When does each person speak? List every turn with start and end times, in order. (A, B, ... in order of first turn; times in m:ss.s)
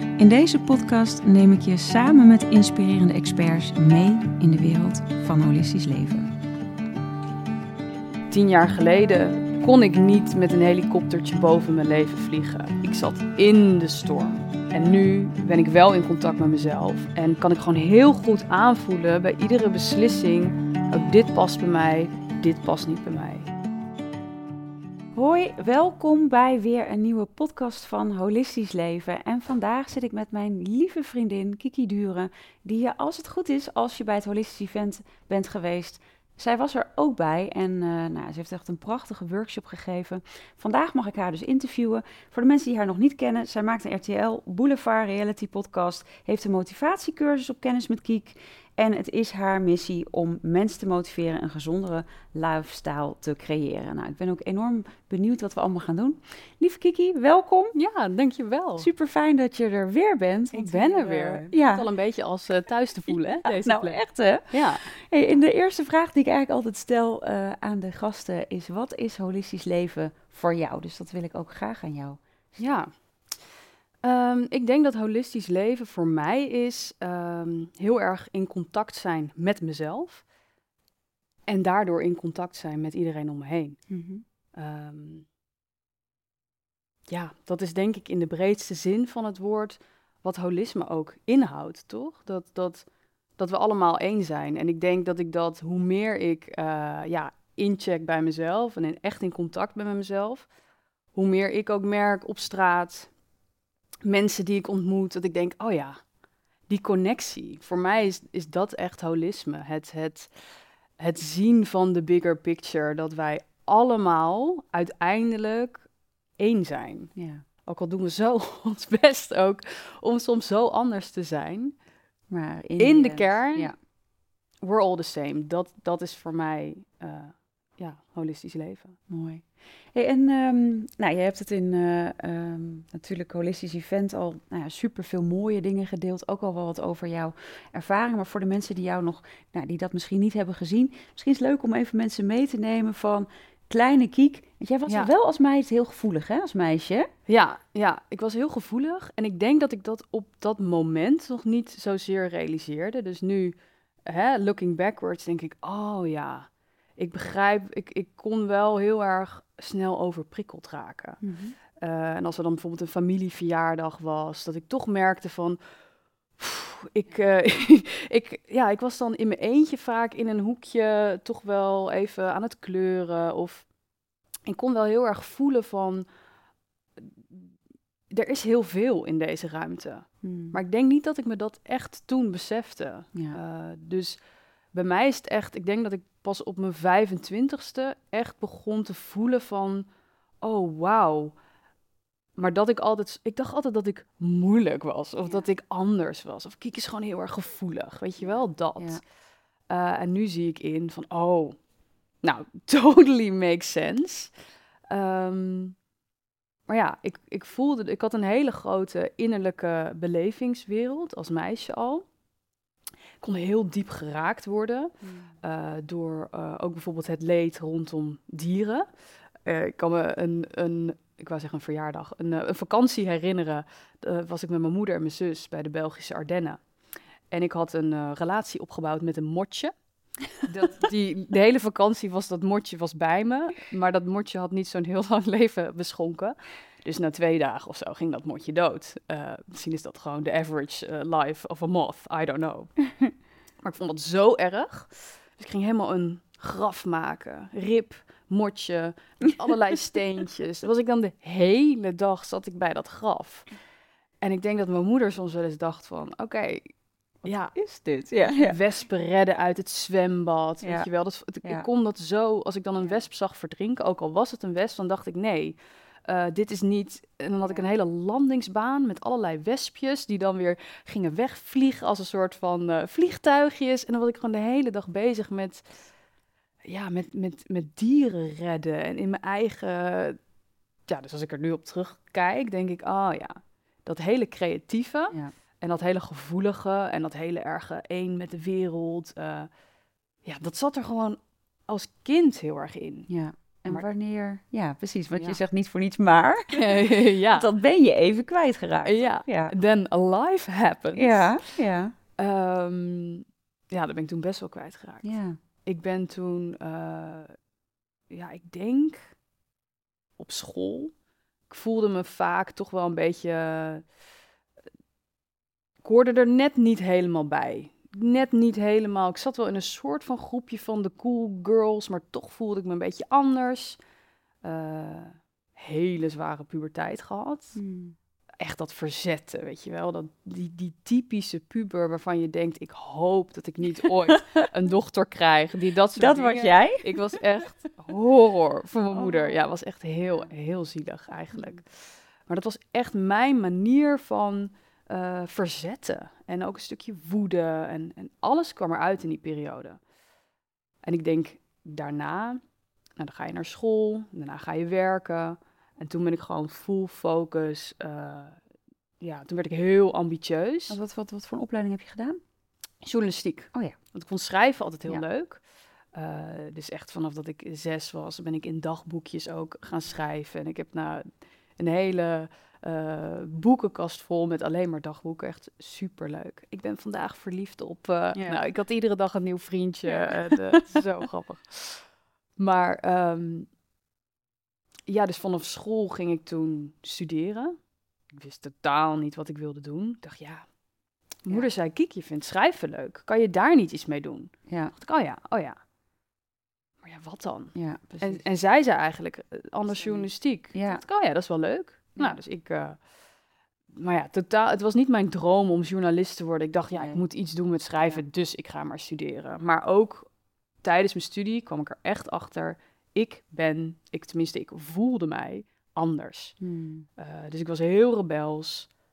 0:00.2-0:06.3 A
0:08.3-0:23.5 B
0:25.1-0:57.7 A
0:57.7-0:58.9 B
0:58.8-1:01.8 A
1:00.5-1:04.8 B
1:03.1-1:12.6 A
1:12.6-1:12.9 B
1:14.0-1:20.2 B
1:21.5-1:23.8 B
1:23.9-1:24.2 A
1:24.5-1:25.2 B
1:27.1-1:32.8 B
1:33.4-1:40.5 B
1:41.1-1:43.1 B
1:44.0-1:46.0 B
1:46.7-1:50.4 B
1:51.0-1:57.1 B
1:57.1-1:57.4 A
1:57.6-2:01.7 B
2:02.3-2:03.7 A
2:02.8-2:03.7 B
2:04.6-2:09.0 B
2:09.1-2:27.1 A
2:24.9-2:25.1 B
2:27.3-2:33.5 B
2:34.0-2:41.2 B
2:41.2-2:41.6 A
2:41.8-2:45.6 B
2:46.4-2:53.7 B
2:54.5-2:56.0 B
2:57.0-2:57.4 B
2:58.1-3:04.2 B
3:00.2-3:00.6 A
3:04.7-3:09.9 B
3:10.4-3:11.4 B
3:12.4-3:19.0 B
3:19.7-3:21.6 B
3:22.2-3:24.3 B
3:24.9-3:25.8 B
3:26.7-3:32.0 B
3:33.2-3:38.9 B
3:35.0-3:35.3 A
3:39.4-3:46.6 B
3:47.3-3:49.7 B
3:50.4-4:02.8 B
4:03.6-4:13.5 B
4:14.2-4:16.7 B
4:17.2-4:18.6 A
4:17.2-4:17.6 B
4:18.3-4:35.8 B
4:20.6-4:20.9 A
4:36.7-4:40.2 B
4:40.9-4:49.5 B
4:50.2-4:53.1 B
4:53.1-4:59.5 A
4:56.5-4:57.5 B
4:58.8-5:01.5 B
5:01.0-5:01.9 A
5:02.2-5:05.1 B
5:05.0-5:05.4 A
5:05.6-5:07.3 B
5:08.1-5:09.1 B
5:10.2-5:10.9 B
5:11.5-5:13.8 B
5:15.8-5:23.8 B
5:24.4-5:27.6 B
5:27.5-5:27.9 A
5:28.4-5:49.8 B
5:36.0-5:36.9 A
5:38.9-5:39.4 A
5:50.8-5:52.4 B
5:53.0-5:58.4 B
5:59.0-6:00.8 B
6:00.7-6:02.2 A
6:02.8-6:05.4 B
6:05.9-6:21.8 B
6:18.1-6:18.4 A
6:19.9-6:20.8 A
6:22.4-6:23.5 B
6:24.9-6:27.6 B
6:28.1-6:30.4 B
6:31.2-6:35.6 B
6:34.5-6:34.7 A
6:36.8-6:42.8 B
6:37.5-6:38.2 A
6:39.7-6:40.8 A
6:43.7-6:50.1 B
6:46.7-6:47.0 A
6:50.6-6:56.4 B
6:56.4-6:56.9 A
6:57.0-6:58.7 B